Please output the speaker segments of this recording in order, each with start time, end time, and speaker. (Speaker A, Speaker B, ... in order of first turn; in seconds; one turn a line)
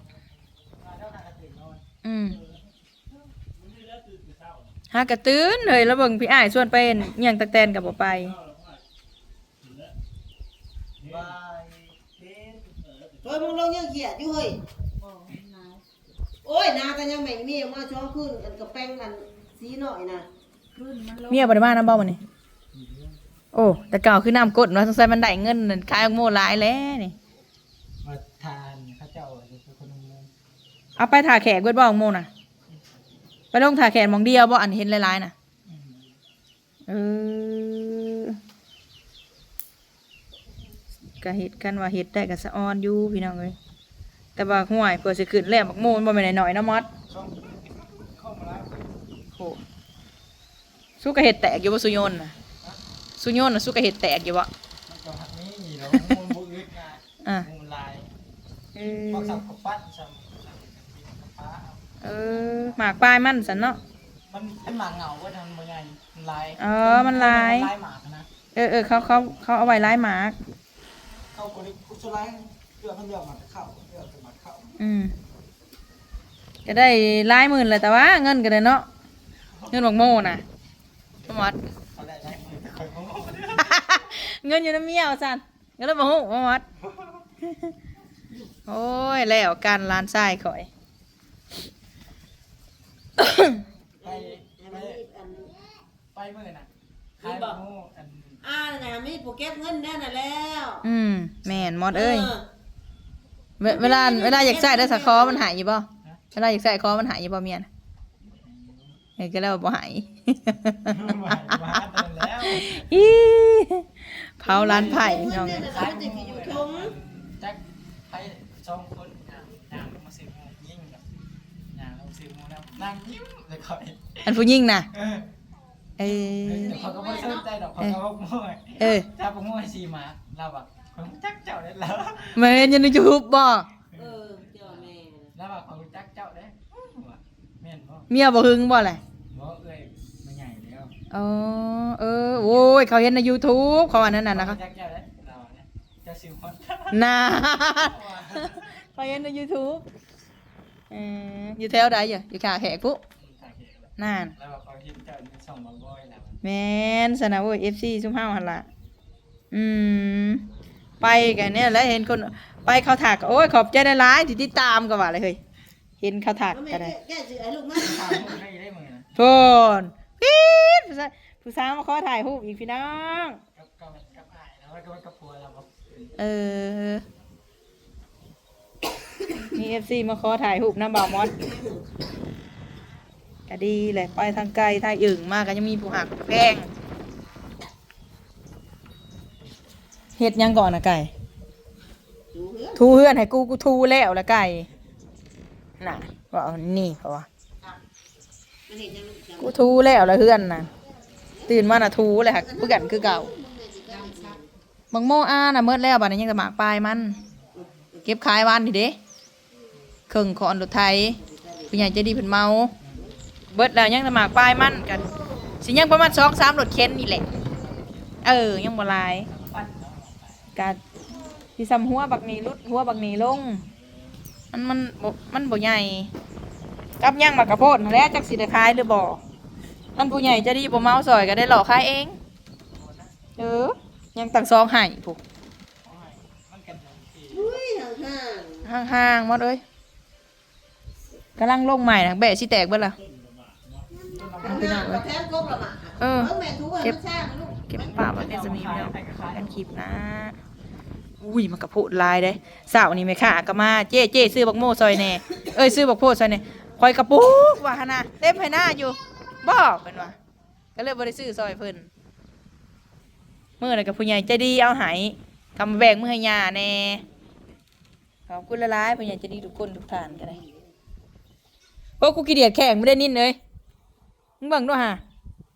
Speaker A: 0.6-1.8
Speaker B: 2.0-2.4
Speaker B: 4.9-8.4
Speaker A: 11.1-11.4
Speaker A: 12.2-12.6
Speaker C: 13.2-14.6
Speaker D: 15.0-15.8
Speaker C: 16.4-20.3
Speaker D: 20.7-21.7
Speaker B: 21.3-22.2
Speaker A: 22.7-23.2
Speaker B: 23.5-27.1
Speaker A: 28.0-30.3
Speaker B: 31.0-32.3
Speaker B: 33.5-35.3
Speaker A: 35.6-36.1
Speaker B: 36.9-38.4
Speaker B: 41.2-43.5
Speaker B: 44.4-46.9
Speaker A: 47.1-48.9
Speaker B: 49.3-49.6
Speaker B: 51.0-52.3
Speaker B: 53.2-54.5
Speaker A: 54.9-58.1
Speaker B: 58.7-59.4
Speaker A: 59.1-62.8
Speaker B: 62.0-63.8
Speaker A: 63.8-68.3
Speaker B: 66.6-67.7
Speaker B: 68.5-70.4
Speaker A: 68.9-69.8
Speaker A: 71.3-74.8
Speaker B: 74.8-75.1
Speaker B: 76.6-78.9
Speaker B: 79.7-80.4
Speaker B: 81.3-81.6
Speaker A: 81.3-84.0
Speaker B: 83.5-86.6
Speaker B: 87.4-87.7
Speaker B: 88.7-90.7
Speaker B: 93.2-93.6
Speaker C: 94.0-95.6
Speaker A: 94.0-95.0
Speaker A: 96.1-98.4
Speaker C: 97.2-97.6
Speaker C: 98.4-100.9
Speaker B: 100.8-102.3
Speaker C: 101.9-102.5
Speaker B: 103.6-107.7
Speaker C: 103.6-105.5
Speaker A: 108.2-109.0
Speaker B: 109.2-115.7
Speaker A: 110.8-112.9
Speaker C: 114.4-116.9
Speaker A: 114.6-121.0
Speaker A: 121.7-124.4
Speaker B: 124.2-124.9
Speaker A: 124.9-125.3
Speaker B: 126.0-126.8
Speaker A: 126.0-132.8
Speaker C: 126.7-127.5
Speaker B: 128.8-129.1
Speaker B: 132.3-133.7
Speaker A: 133.9-138.1
Speaker C: 133.9-135.3
Speaker B: 138.1-139.0
Speaker A: 139.3-140.9
Speaker B: 141.1-144.6
Speaker A: 142.3-142.7
Speaker A: 144.3-147.1
Speaker B: 146.9-149.8
Speaker A: 147.8-148.7
Speaker B: 150.9-153.0
Speaker A: 153.2-156.4
Speaker B: 154.0-154.3
Speaker B: 156.4-158.7
Speaker B: 159.5-160.4
Speaker B: 161.0-165.4
Speaker B: 166.0-166.9
Speaker C: 166.5-168.3
Speaker A: 167.8-169.2
Speaker B: 169.2-173.4
Speaker A: 173.5-176.2
Speaker B: 176.2-177.0
Speaker B: 179.5-181.4
Speaker C: 181.3-181.8
Speaker B: 183.5-186.7
Speaker B: 190.2-191.1
Speaker C: 192.3-192.8
Speaker B: 192.8-194.7
Speaker B: 195.8-197.3
Speaker C: 198.7-199.6
Speaker B: 199.4-200.7
Speaker C: 201.3-201.6
Speaker B: 201.5-203.3
Speaker C: 202.2-204.5
Speaker D: 203.9-204.4
Speaker B: 204.9-207.2
Speaker A: 207.3-207.6
Speaker C: 207.5-208.1
Speaker B: 208.0-209.0
Speaker B: 210.1-211.2
Speaker C: 211.1-211.9
Speaker B: 211.7-212.7
Speaker A: 212.8-213.2
Speaker B: 213.5-217.3
Speaker C: 214.8-215.6
Speaker A: 217.3-218.2
Speaker B: 218.2-219.3
Speaker A: 219.2-220.6
Speaker B: 221.6-223.6
Speaker B: 224.5-226.1
Speaker B: 227.0-229.2
Speaker B: 230.0-232.2
Speaker A: 232.6-233.1
Speaker B: 233.4-235.2
Speaker A: 235.8-237.5
Speaker C: 237.3-238.7
Speaker B: 238.6-239.6
Speaker B: 241.4-243.0
Speaker C: 243.9-247.7
Speaker A: 244.1-245.0
Speaker B: 244.4-245.0
Speaker B: 246.0-247.0
Speaker B: 247.7-250.3
Speaker A: 247.8-249.7
Speaker B: 251.2-260.1
Speaker B: 260.8-261.9
Speaker B: 263.6-267.0
Speaker B: 268.3-270.4
Speaker C: 270.0-270.7
Speaker B: 272.0-273.4
Speaker B: 274.4-275.0